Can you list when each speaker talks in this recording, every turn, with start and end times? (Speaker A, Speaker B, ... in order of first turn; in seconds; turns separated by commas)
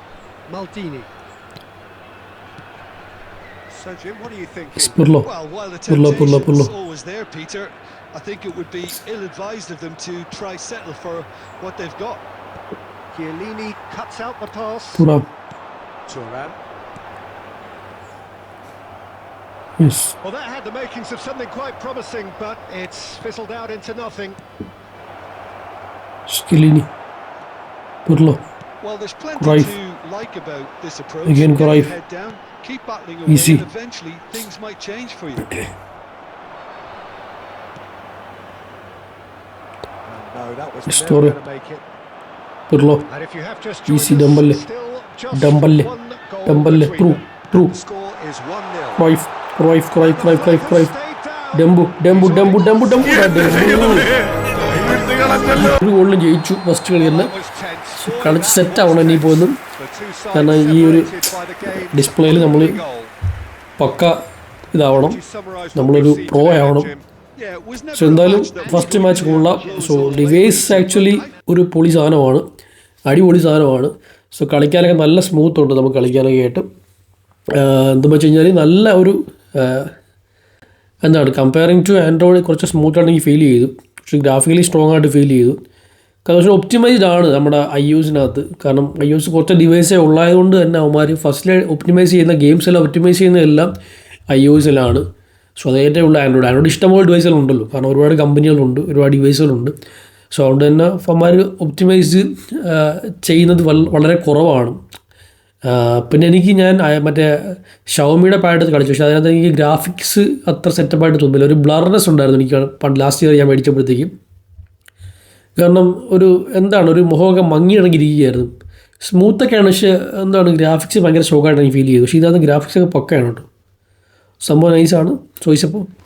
Speaker A: 0.5-1.1, Speaker A: 3.7-5.1, Speaker B: 4.8-5.3, Speaker C: 5.2-12.2, Speaker B: 5.9-6.7, Speaker A: 13.1-15.1, Speaker B: 15.0-15.3, Speaker A: 16.1-16.6, Speaker B: 19.8-20.2, Speaker A: 20.2-24.4, Speaker B: 26.3-26.9, Speaker B: 28.1-28.4, Speaker C: 28.8-35.6, Speaker B: 29.4-29.8, Speaker B: 31.3-31.9, Speaker B: 33.3-33.6, Speaker A: 40.0-41.9, Speaker B: 40.9-41.4, Speaker B: 42.7-43.1, Speaker A: 43.1-49.1, Speaker B: 43.9-44.6, Speaker B: 45.3-45.9, Speaker B: 46.5-47.8, Speaker B: 49.0-50.9, Speaker A: 50.0-53.4, Speaker B: 51.5-54.1, Speaker A: 54.7-55.2, Speaker B: 55.2-57.3, Speaker A: 57.0-63.1, Speaker B: 58.0-59.6, Speaker B: 60.3-61.1, Speaker B: 61.9-62.8, Speaker B: 63.8-64.2, Speaker B: 64.7-65.2, Speaker A: 64.9-67.0, Speaker B: 65.8-66.9, Speaker C: 67.4-71.3, Speaker B: 67.9-72.5, Speaker A: 68.0-71.3, Speaker B: 73.1-76.7, Speaker B: 77.5-79.9, Speaker B: 81.0-85.6, Speaker B: 86.2-93.7, Speaker B: 94.3-95.0, Speaker B: 95.6-99.8, Speaker B: 100.3-104.8, Speaker B: 105.7-114.1, Speaker B: 115.6-118.5, Speaker B: 119.0-123.5, Speaker B: 124.4-125.9